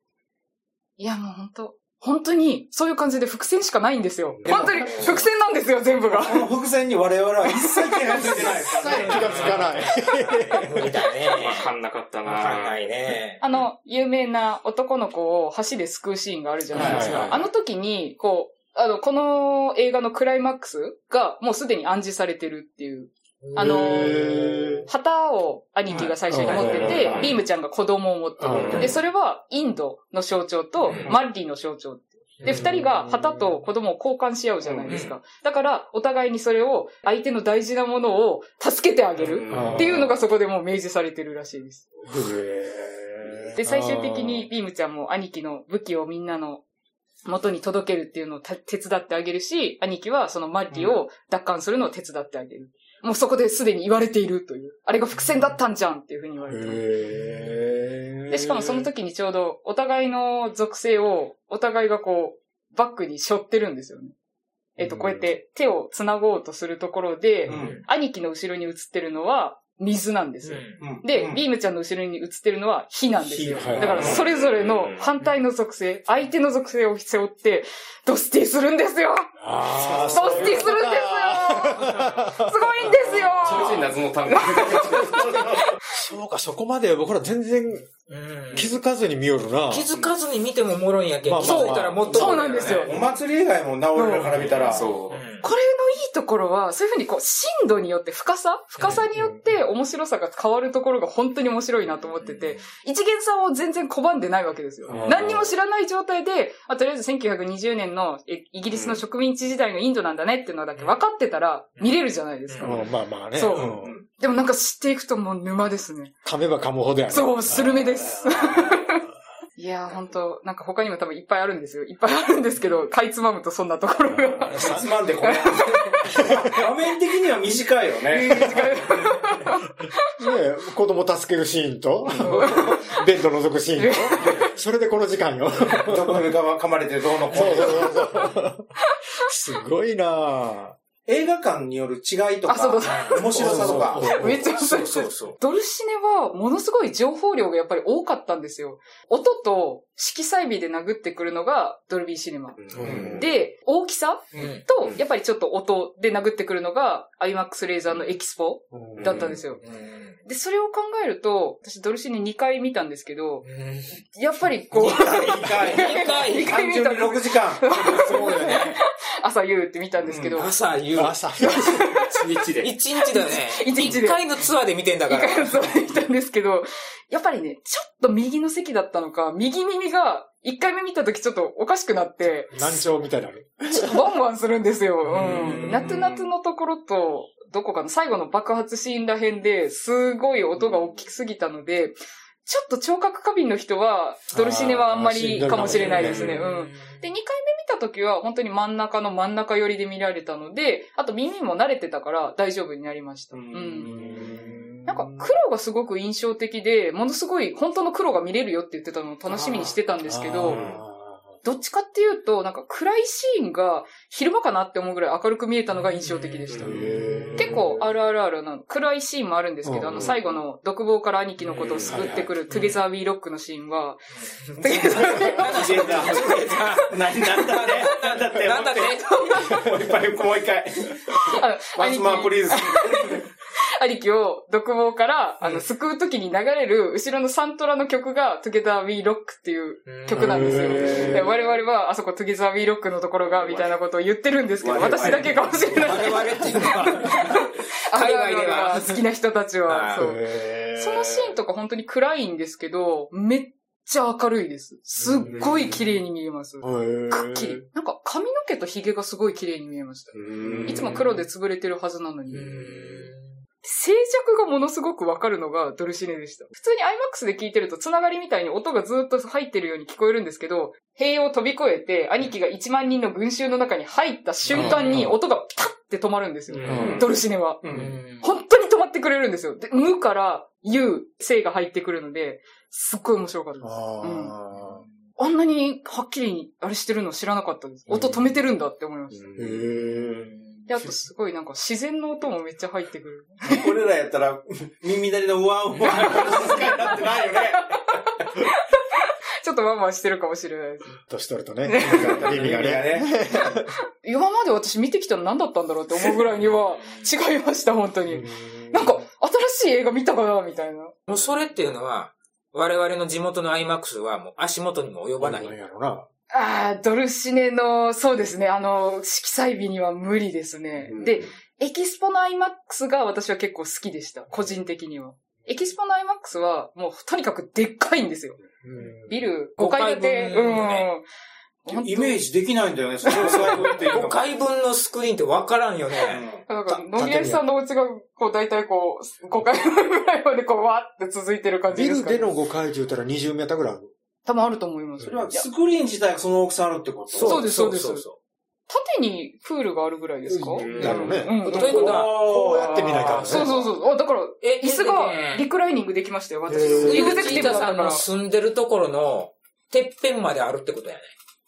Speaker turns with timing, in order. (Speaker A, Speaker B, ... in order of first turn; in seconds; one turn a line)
Speaker A: 1.0-6.5
Speaker B: 4.4-4.9
Speaker C: 4.5-5.2
Speaker C: 6.0-9.7
Speaker A: 7.4-8.7
Speaker D: 8.3-11.7
Speaker B: 8.4-10.9
Speaker E: 11.3-12.8
Speaker D: 12.2-13.4
Speaker A: 13.4-41.9
Speaker B: 16.7-17.4
Speaker C: 16.8-17.1
Speaker D: 16.8-17.3
Speaker D: 23.4-24.0
Speaker B: 23.6-24.9
Speaker C: 25.9-27.3
Speaker B: 26.3-27.3
Speaker D: 26.5-27.3
Speaker E: 26.8-27.3
Speaker B: 28.4-28.9
Speaker D: 28.5-28.9
Speaker D: 30.8-31.1
Speaker B: 32.4-33.6
Speaker C: 34.6-35.0
Speaker D: 34.9-35.1
Speaker E: 39.2-40.1
Speaker B: 39.5-40.1
Speaker B: 42.1-44.5
Speaker A: 43.5-46.6
Speaker A: 47.2-56.9
Speaker B: 56.5-58.9
Speaker A: 58.3-64.1
Speaker A: 64.8-79.3
Speaker B: 64.8-65.3
Speaker B: 67.5-67.8
Speaker C: 67.5-67.8
Speaker D: 67.5-67.8
Speaker D: 70.4-70.8
Speaker C: 70.8-71.4
Speaker B: 73.2-74.2
Speaker C: 73.7-74.2
Speaker E: 73.9-75.1
Speaker B: 79.4-84.0
Speaker D: 79.9-80.4
Speaker A: 80.0-85.6
Speaker E: 83.4-85.5
Speaker B: 85.1-87.9
Speaker D: 88.1-88.7
Speaker B: 88.5-89.9
Speaker D: 89.7-92.9
Speaker B: 91.2-92.1
Speaker A: 91.4-93.0
Speaker C: 92.1-94.9
Speaker A: 93.9-94.4
Speaker E: 94.6-95.2
Speaker D: 95.1-95.5
Speaker A: 95.4-116.1
Speaker B: 99.1-99.5
Speaker B: 104.8-105.5
Speaker E: 108.7-109.0
Speaker D: 112.5-112.8
Speaker B: 112.6-114.0
Speaker C: 113.5-114.0
Speaker B: 116.2-118.8
Speaker A: 117.1-119.0
Speaker A: 119.6-126.2
Speaker B: 124.1-124.9
Speaker C: 124.5-129.0
Speaker B: 126.1-126.5
Speaker A: 128.1-129.7
Speaker B: 130.2-136.3
Speaker A: 132.2-133.0
Speaker A: 133.8-134.5
Speaker C: 135.7-138.2
Speaker B: 137.3-138.7
Speaker A: 137.5-138.3
Speaker B: 139.2-140.8
Speaker C: 141.1-144.1
Speaker A: 142.5-159.6
Speaker D: 142.9-143.8
Speaker B: 143.3-144.5
Speaker D: 144.5-145.4
Speaker E: 152.6-153.3
Speaker B: 152.7-153.2
Speaker C: 152.8-153.2
Speaker C: 154.3-154.6
Speaker D: 154.4-154.6
Speaker B: 158.7-159.4
Speaker E: 159.0-159.4
Speaker D: 159.6-160.2
Speaker A: 160.2-163.5
Speaker D: 163.4-164.0
Speaker A: 164.0-170.5
Speaker C: 164.7-167.7
Speaker D: 165.7-166.6
Speaker D: 167.9-168.8
Speaker C: 170.1-170.4
Speaker D: 170.3-171.2
Speaker B: 171.0-171.9
Speaker A: 171.4-172.2
Speaker E: 172.1-172.8
Speaker D: 172.6-175.8
Speaker A: 173.0-174.2
Speaker A: 175.1-182.6
Speaker B: 182.5-184.1
Speaker A: 183.7-204.0
Speaker B: 185.1-185.9
Speaker C: 185.1-186.2
Speaker D: 185.1-185.8
Speaker B: 194.3-196.4
Speaker D: 195.7-197.0
Speaker E: 195.9-196.4
Speaker C: 203.3-204.6
Speaker B: 203.8-205.3
Speaker A: 204.9-210.6
Speaker B: 210.1-211.2
Speaker E: 210.5-210.8
Speaker A: 211.4-224.0
Speaker D: 215.9-217.5
Speaker B: 216.6-217.9
Speaker B: 219.6-220.2
Speaker D: 221.5-222.8
Speaker E: 221.7-222.0
Speaker B: 221.8-222.4
Speaker A: 224.6-225.6
Speaker C: 224.6-233.2
Speaker D: 224.7-229.2
Speaker B: 224.9-225.3
Speaker A: 229.0-229.6
Speaker A: 231.3-250.2
Speaker D: 239.9-241.4
Speaker B: 240.1-241.3
Speaker E: 243.3-243.8
Speaker C: 244.6-246.6
Speaker D: 245.7-249.0
Speaker B: 245.8-246.9
Speaker D: 249.7-250.1
Speaker B: 249.9-251.4
Speaker A: 250.8-263.1
Speaker B: 255.0-255.9
Speaker B: 256.6-257.6
Speaker E: 260.1-261.0
Speaker B: 260.4-261.1
Speaker D: 262.3-263.2
Speaker A: 263.6-284.4
Speaker B: 274.5-275.2
Speaker D: 274.5-275.0
Speaker E: 276.5-277.1
Speaker D: 276.6-277.0
Speaker B: 276.7-277.1
Speaker C: 277.6-278.0
Speaker D: 277.7-278.2
Speaker B: 283.6-284.8
Speaker A: 285.2-289.4
Speaker B: 287.9-288.3
Speaker E: 289.2-289.6
Speaker B: 289.4-290.3
Speaker A: 290.7-293.7
Speaker C: 293.4-297.8
Speaker A: 295.9-300.9
Speaker B: 301.1-303.7
Speaker A: 301.6-302.2
Speaker C: 301.8-303.1
Speaker A: 304.0-310.9
Speaker B: 308.1-309.0
Speaker D: 311.1-315.5
Speaker B: 315.2-316.1
Speaker A: 316.3-328.4
Speaker E: 320.9-321.2
Speaker B: 328.6-329.3
Speaker A: 329.1-331.1
Speaker D: 329.6-330.9
Speaker A: 331.6-332.2
Speaker C: 331.7-334.2
Speaker D: 333.1-336.2
Speaker C: 336.0-336.4
Speaker A: 336.5-342.3
Speaker B: 336.7-337.4
Speaker B: 341.7-343.9
Speaker A: 344.2-345.5
Speaker C: 345.0-347.4
Speaker D: 347.1-348.1
Speaker A: 347.2-348.1
Speaker A: 348.7-358.0
Speaker B: 350.2-353.5
Speaker E: 350.6-351.3
Speaker D: 350.8-352.2
Speaker C: 351.4-353.5
Speaker D: 353.0-353.6
Speaker D: 354.4-355.5
Speaker B: 356.5-357.5
Speaker D: 356.8-361.1